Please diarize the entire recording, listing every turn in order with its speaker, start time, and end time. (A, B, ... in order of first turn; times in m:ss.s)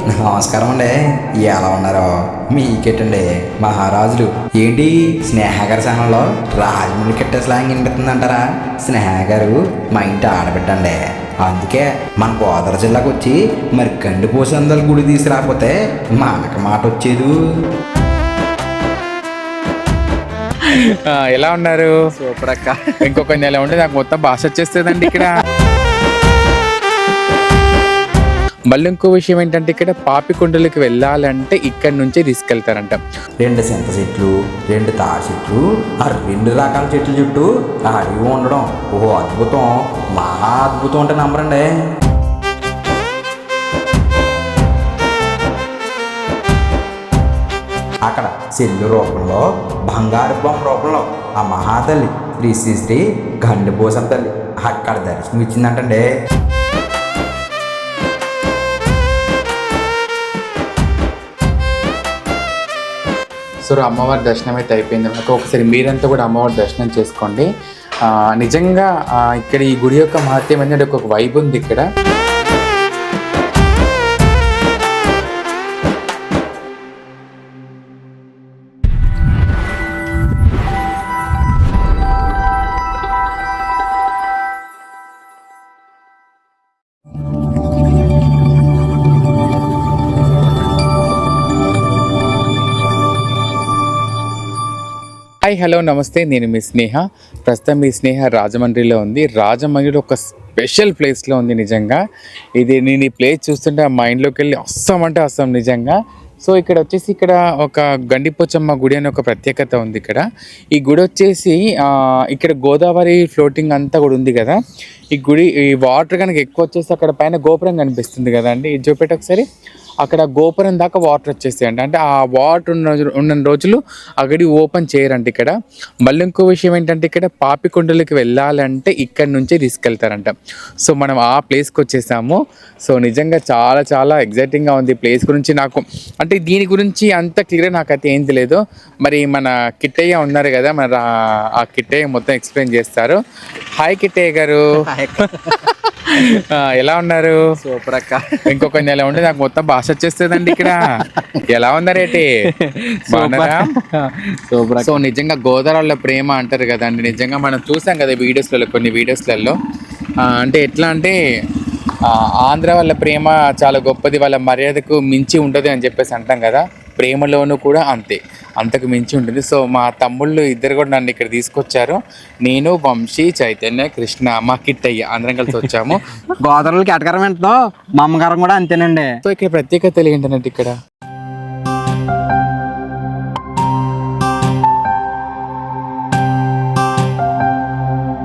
0:00.2-0:00.9 A
0:01.4-0:17.3 A
0:20.6-0:21.9 B
0:22.1-0:23.1 C
0:23.0-0:25.3 B
0:28.7-0:33.0 B
0:33.4-0:41.6 A
0:48.1-0:56.0 A
1:03.6-1:07.5 B
1:08.4-1:11.8 B
1:35.4-1:42.0 B
1:42.6-1:54.6 B
1:55.1-1:59.4 B
2:00.0-2:05.5 B
2:06.0-2:21.0 B
2:21.6-2:23.2 B
2:23.8-2:24.6 B
2:24.9-2:25.6 C
2:25.2-2:27.4 B
2:27.6-2:28.7 C
2:28.5-2:30.9 B
2:30.4-2:31.4 C
2:31.5-2:32.4 B
2:32.0-2:34.9 C
2:33.1-2:33.7 B
2:34.8-2:39.5 B
2:40.2-2:41.2 B
2:42.0-2:56.0 B
2:56.4-2:59.1 C
2:59.2-3:00.7 B